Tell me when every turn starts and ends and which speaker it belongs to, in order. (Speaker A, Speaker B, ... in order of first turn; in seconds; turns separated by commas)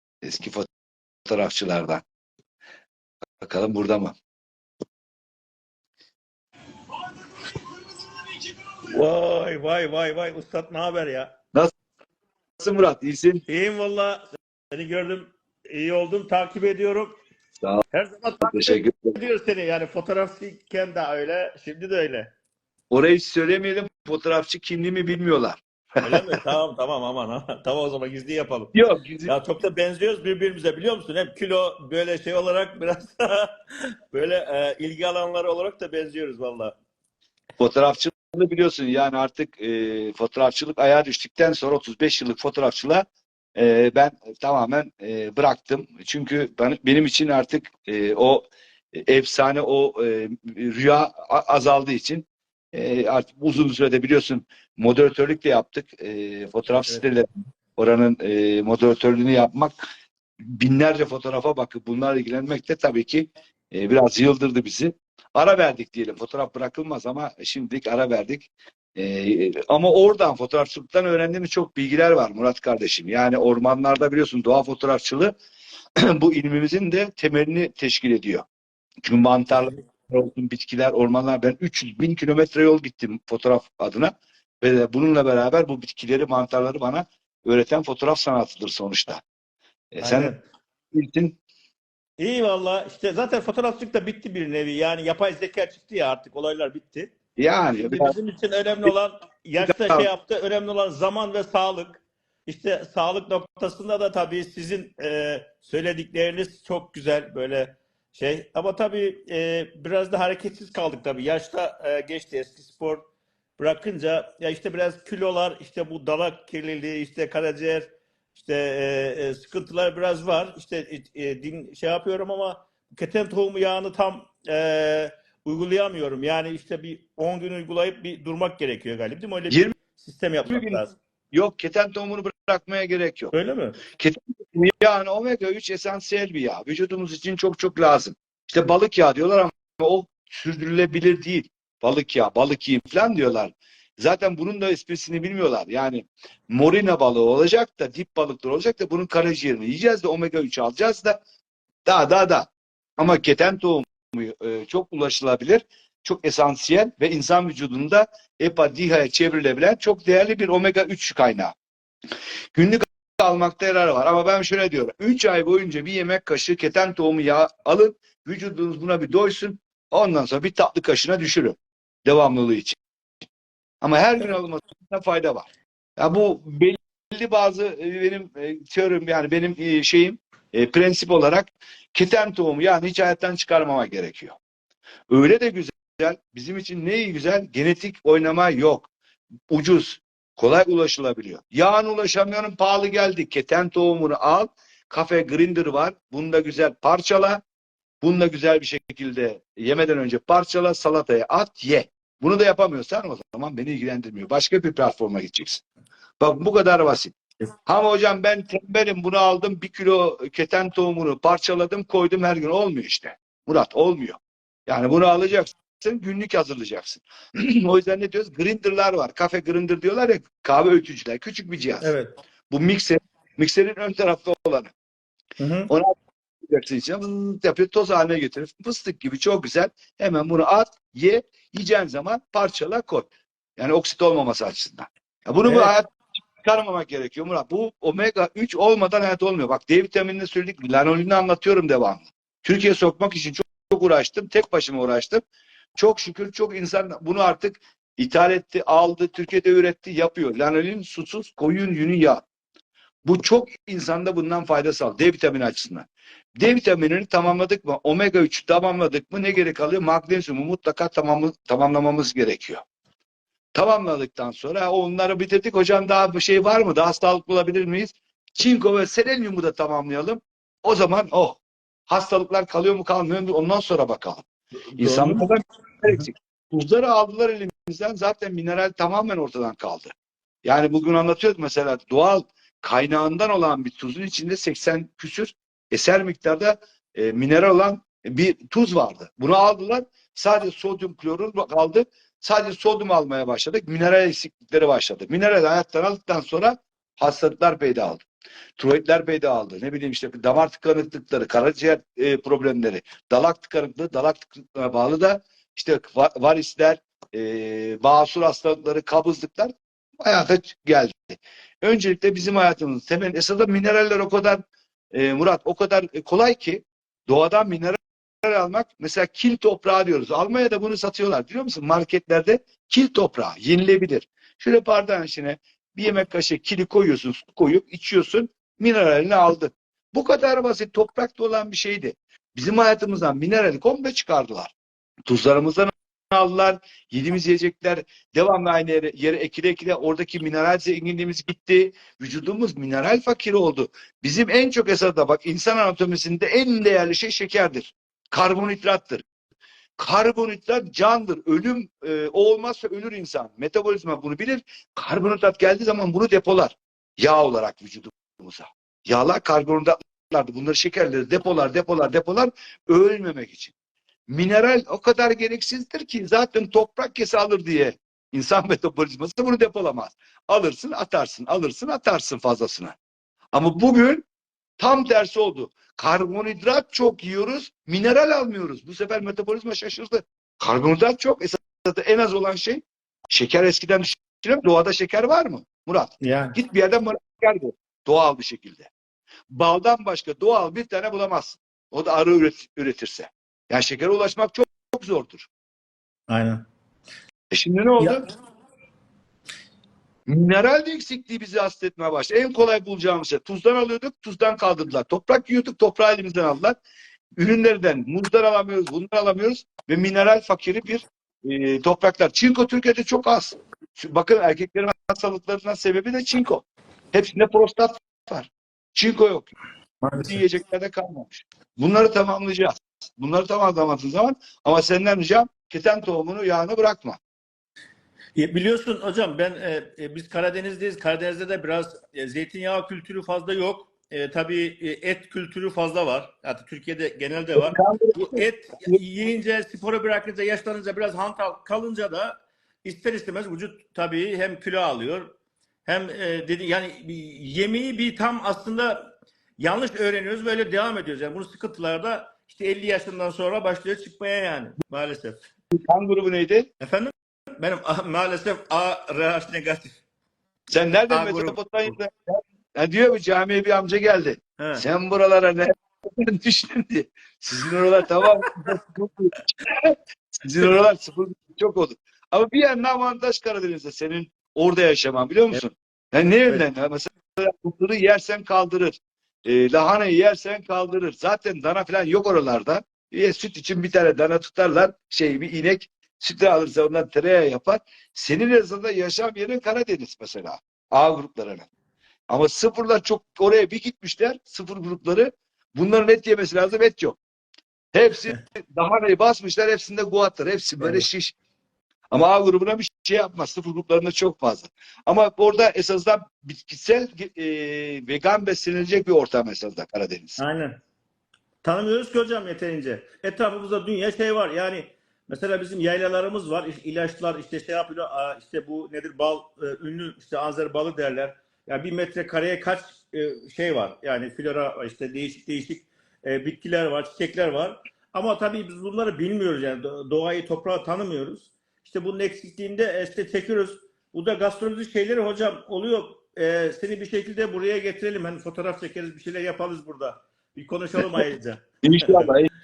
Speaker A: 0.2-0.7, Speaker A: 1.2-2.0, Speaker A: 3.4-4.2, Speaker B: 8.9-11.3, Speaker A: 12.6-13.4, Speaker B: 13.5-17.2, Speaker B: 17.9-22.3, Speaker A: 18.4-19.2, Speaker A: 22.9-26.4, Speaker B: 26.0-28.7, Speaker A: 28.7-29.3, Speaker B: 29.3-33.5, Speaker B: 34.1-36.7, Speaker A: 37.6-59.8, Speaker A: 60.5-75.3, Speaker A: 76.0-78.4, Speaker A: 79.0-89.2, Speaker A: 89.9-90.3, Speaker B: 90.0-90.4, Speaker A: 90.9-91.4, Speaker B: 92.2-97.1, Speaker A: 97.4-98.1, Speaker B: 97.8-113.0, Speaker A: 99.6-100.1, Speaker B: 113.6-130.9, Speaker A: 130.5-133.3, Speaker B: 133.3-133.8, Speaker A: 134.0-151.2, Speaker A: 151.8-161.5, Speaker A: 162.5-172.8, Speaker A: 173.8-184.4, Speaker A: 185.1-188.9, Speaker A: 189.5-197.4, Speaker A: 198.0-205.6, Speaker A: 206.2-221.9, Speaker B: 221.8-222.1, Speaker A: 222.5-224.7, Speaker B: 225.4-225.7, Speaker A: 225.7-245.2, Speaker B: 235.4-235.7, Speaker A: 245.8-252.2, Speaker A: 253.0-262.6, Speaker A: 263.6-274.2, Speaker B: 274.8-275.3, Speaker A: 274.8-279.9, Speaker A: 280.4-298.1, Speaker A: 298.6-334.5, Speaker A: 335.1-349.1, Speaker A: 349.8-363.5, Speaker A: 364.1-372.8, Speaker A: 373.3-374.1, Speaker A: 374.6-388.7, Speaker B: 386.0-386.4, Speaker A: 389.3-395.3, Speaker B: 396.1-396.4, Speaker A: 397.3-398.0, Speaker A: 400.1-406.6, Speaker A: 407.2-419.3, Speaker B: 419.9-420.1, Speaker A: 419.9-427.0, Speaker B: 428.1-445.1, Speaker A: 437.4-438.8, Speaker B: 445.6-448.8, Speaker B: 449.4-455.2, Speaker A: 455.5-456.5, Speaker B: 456.6-459.8, Speaker A: 460.5-491.5, Speaker B: 460.9-461.8, Speaker B: 464.4-464.6, Speaker B: 468.0-468.3, Speaker A: 492.1-497.0, Speaker A: 497.7-501.1, Speaker B: 500.6-500.9, Speaker A: 501.9-510.2, Speaker B: 510.2-510.6, Speaker B: 511.4-542.1, Speaker A: 541.6-542.3